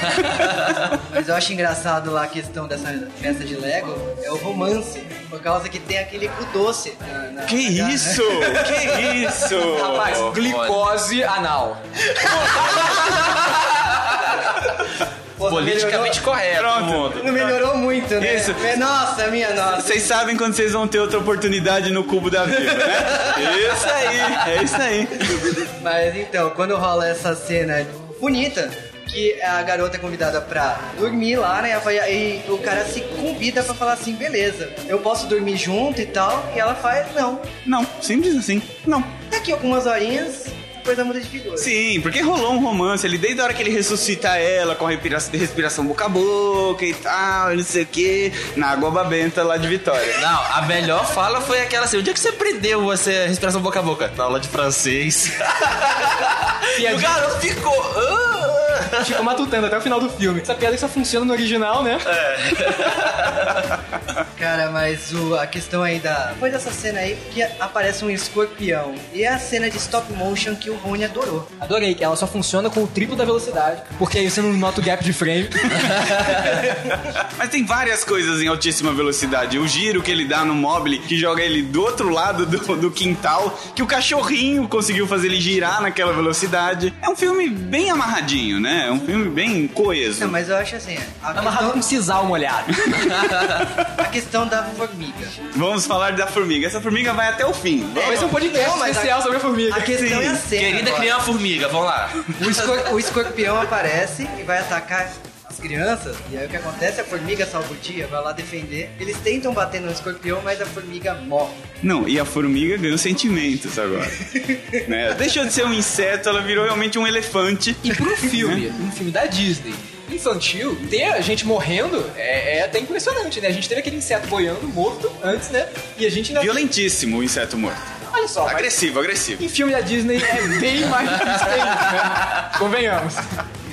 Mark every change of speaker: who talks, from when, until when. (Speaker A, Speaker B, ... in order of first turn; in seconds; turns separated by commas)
Speaker A: 0.9-9.4, Speaker B: 7.5-10.4, Speaker C: 9.6-11.8, Speaker D: 10.3-10.8, Speaker C: 12.5-12.8, Speaker A: 15.4-16.2, Speaker D: 15.4-17.4, Speaker B: 16.6-17.6, Speaker A: 17.1-20.1, Speaker B: 18.2-18.7, Speaker B: 19.7-25.7, Speaker A: 22.8-23.6, Speaker A: 25.8-37.5, Speaker B: 37.6-39.2, Speaker A: 39.3-41.7, Speaker B: 41.6-50.3, Speaker D: 50.1-59.3, Speaker C: 56.8-57.2, Speaker C: 59.0-62.1, Speaker D: 62.1-63.7, Speaker A: 64.4-71.5, Speaker C: 71.6-76.7, Speaker B: 77.1-90.3, Speaker A: 90.2-92.0, Speaker C: 91.3-93.5, Speaker A: 93.9-95.4, Speaker B: 95.5-98.4, Speaker A: 98.0-101.1, Speaker C: 98.0-100.1, Speaker B: 100.0-100.4, Speaker D: 100.5-102.5, Speaker A: 102.3-111.6, Speaker B: 111.8-114.2, Speaker A: 114.2-114.8, Speaker B: 114.8-118.7, Speaker C: 117.8-126.6, Speaker B: 126.3-129.4, Speaker C: 128.1-128.7, Speaker C: 129.4-133.4